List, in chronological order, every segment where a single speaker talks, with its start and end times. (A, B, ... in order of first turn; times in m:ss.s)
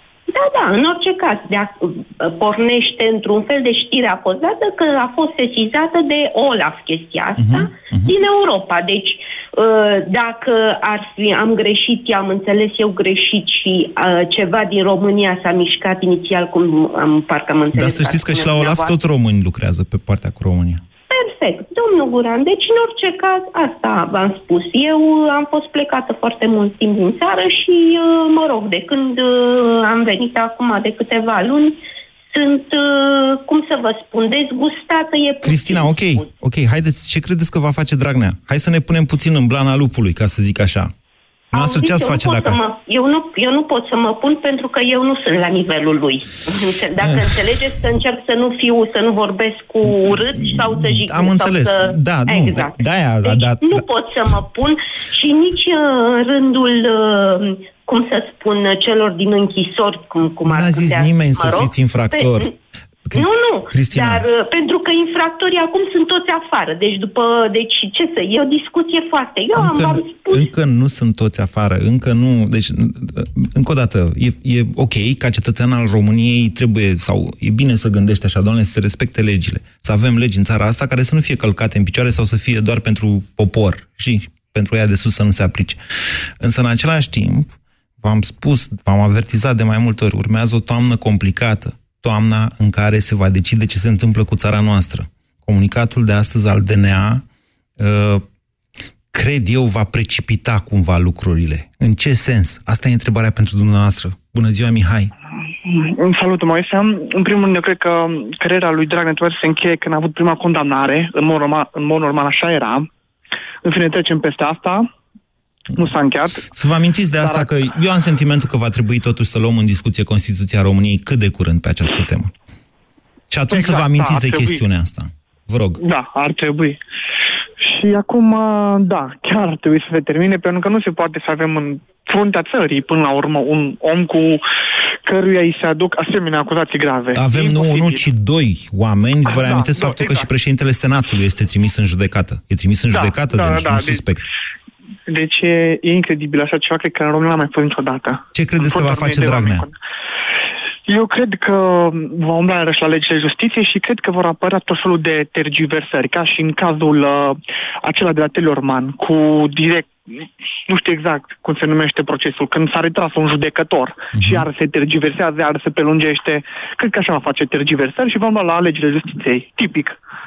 0:00.3-0:18.9 A
0:07.4-0:08.1 B
0:17.7-0:20.8 B
0:21.1-0:31.8 A
0:32.3-0:36.2 A
0:35.4-0:40.9 B
0:41.5-0:42.6 B
0:41.5-1:02.5 A
0:47.0-0:47.3 B
0:49.8-0:53.8 B
1:00.4-1:02.5 B
1:03.1-1:04.2 B
1:03.1-1:10.5 A
1:09.5-1:25.8 B
1:26.4-1:37.2 B
1:37.8-1:38.2 B
1:39.1-1:45.1 B
1:45.6-1:52.9 C
1:53.6-1:54.9 C
1:55.7-1:56.5 C
1:56.5-2:02.3 B
1:57.2-1:57.5 C
2:03.3-2:05.8 B
2:03.5-2:04.6 C
2:05.8-2:06.8 C
2:07.6-2:14.4 C
2:15.0-2:18.1 C
2:17.1-2:24.2 B
2:19.2-2:20.3 C
2:22.9-2:24.0 C
2:25.1-2:29.7 C
2:28.3-2:29.7 B
2:30.9-2:39.9 C
2:40.7-2:50.0 C
2:44.1-2:44.5 B